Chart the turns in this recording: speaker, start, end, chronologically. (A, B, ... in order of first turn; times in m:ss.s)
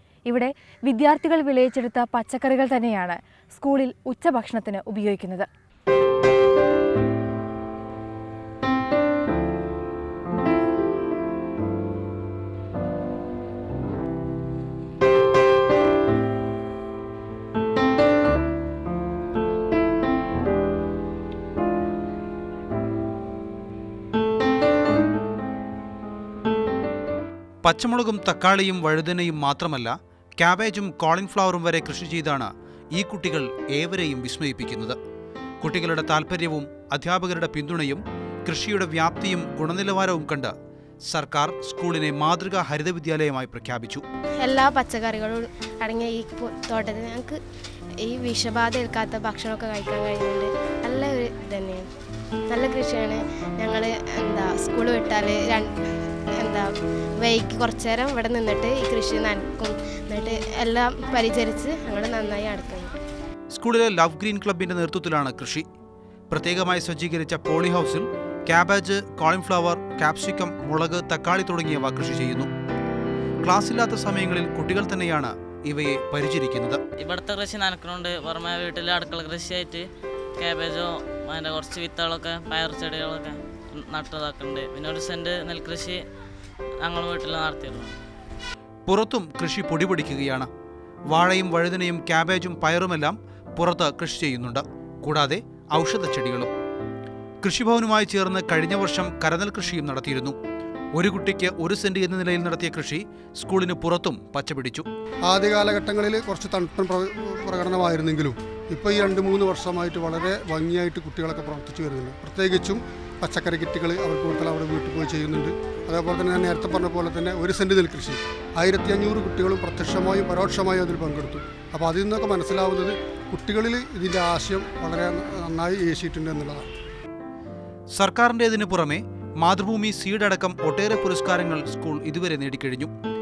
0:00.3-0:05.5 A
0:27.6-0:35.0 B
0:35.6-0:40.5 B
0:41.1-0:44.0 B
0:44.4-0:47.4 C
0:48.0-0:51.9 C
0:52.5-1:03.0 C
1:03.5-1:05.7 B
1:06.3-1:12.5 B
1:13.4-1:16.8 B
1:17.0-1:19.8 D
1:20.4-1:26.0 D
1:26.8-1:28.0 D
1:28.9-1:30.5 B
1:31.1-1:36.5 B
1:37.4-1:40.4 B
1:41.0-1:44.9 B
1:45.3-2:06.7 E
2:07.9-2:12.9 B